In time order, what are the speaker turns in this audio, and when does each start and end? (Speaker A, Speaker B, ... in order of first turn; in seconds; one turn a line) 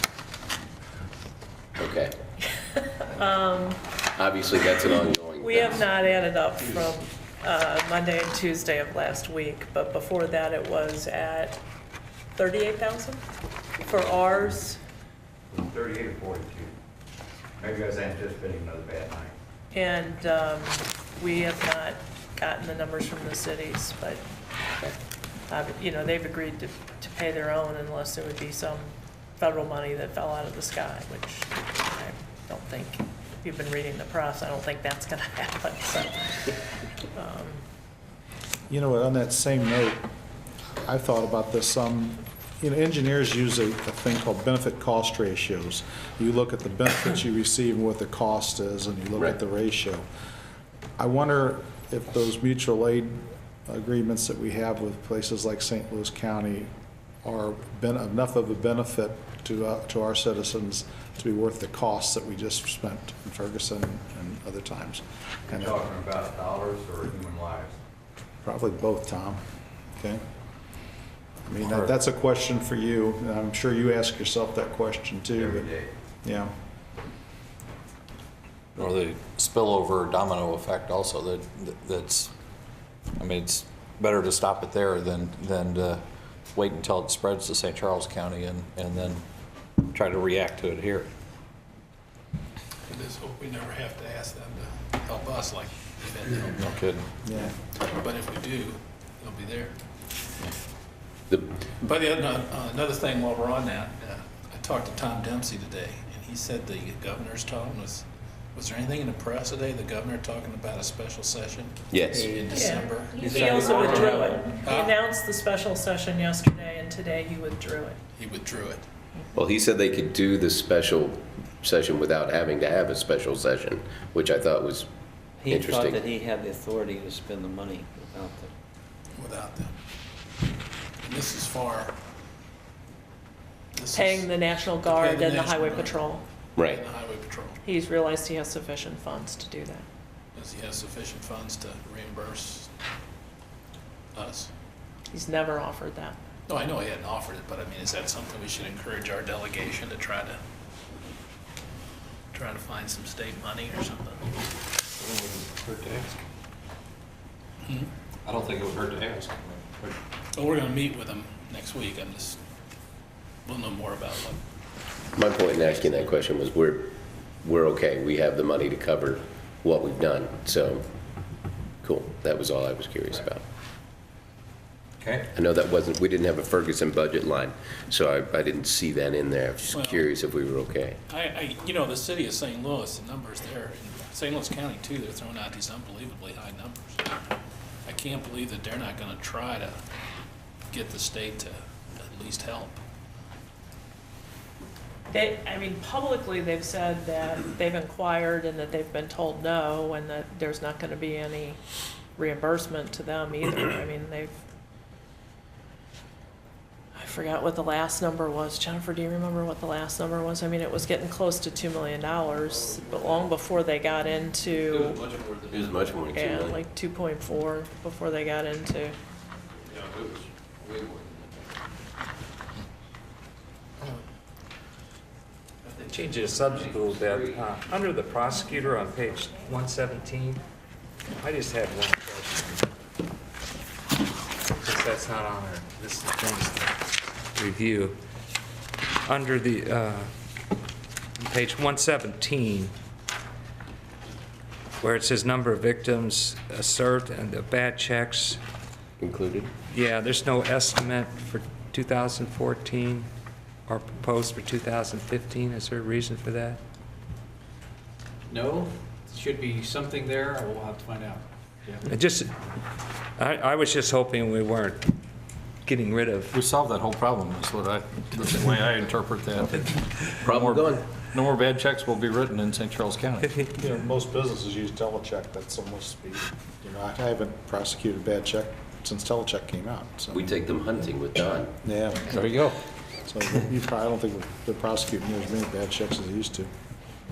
Speaker A: 1.8-2.1
Speaker B: 2.5-3.8
Speaker A: 4.2-5.9
Speaker B: 5.4-11.6
Speaker B: 12.3-13.2
Speaker B: 13.8-14.8
Speaker C: 15.5-16.7
Speaker C: 17.6-19.4
Speaker B: 19.7-24.2
Speaker B: 25.5-37.6
Speaker D: 38.7-40.0
Speaker D: 40.8-50.0
Speaker D: 51.0-56.7
Speaker D: 57.2-65.9
Speaker C: 65.5-67.8
Speaker D: 68.4-69.4
Speaker D: 71.5-75.7
Speaker C: 75.4-75.9
Speaker D: 76.2-76.5
Speaker E: 78.8-82.3
Speaker E: 83.2-89.2
Speaker E: 89.8-91.1
Speaker F: 92.9-96.8
Speaker E: 96.8-97.0
Speaker D: 97.2-97.5
Speaker F: 97.8-99.8
Speaker A: 101.3-101.6
Speaker F: 101.8-108.0
Speaker F: 108.6-115.0
Speaker A: 111.9-112.5
Speaker B: 112.5-118.0
Speaker F: 118.2-118.8
Speaker A: 119.3-124.9
Speaker G: 125.4-128.5
Speaker A: 125.4-126.1
Speaker F: 129.2-129.7
Speaker F: 131.1-131.9
Speaker F: 133.8-136.1
Speaker B: 133.9-136.2
Speaker A: 136.6-136.8
Speaker F: 136.6-137.6
Speaker B: 137.6-139.9
Speaker F: 140.3-142.7
Speaker F: 144.2-144.5
Speaker B: 145.1-146.2
Speaker F: 146.5-150.4
Speaker F: 152.3-154.5
Speaker E: 154.9-156.2
Speaker E: 158.2-160.0
Speaker F: 160.3-162.4
Speaker F: 163.5-164.4
Speaker A: 165.1-170.8
Speaker A: 171.8-173.4
Speaker E: 175.0-175.2
Speaker A: 175.3-181.0
Speaker F: 179.7-180.1
Speaker F: 181.1-187.2
Speaker F: 187.9-189.8
Speaker F: 190.7-192.8
Speaker B: 195.1-201.6
Speaker B: 202.2-204.3
Speaker B: 206.9-215.2
Speaker A: 215.4-216.6
Speaker B: 216.1-219.0
Speaker C: 219.8-220.2
Speaker C: 220.7-221.1
Speaker H: 225.9-230.4
Speaker G: 226.2-227.3
Speaker H: 231.2-232.7
Speaker H: 234.6-236.7
Speaker H: 237.4-238.0
Speaker H: 239.1-240.1
Speaker H: 241.3-242.7
Speaker H: 244.8-248.4
Speaker A: 249.0-249.5
Speaker H: 249.8-253.1
Speaker H: 253.7-256.6
Speaker I: 258.3-261.8
Speaker H: 261.9-262.3
Speaker H: 263.2-264.9
Speaker H: 265.7-266.3
Speaker E: 266.3-273.3
Speaker A: 270.2-270.9
Speaker D: 273.5-280.3
Speaker A: 280.1-281.5
Speaker D: 281.6-282.1
Speaker E: 282.1-282.6
Speaker D: 283.1-286.5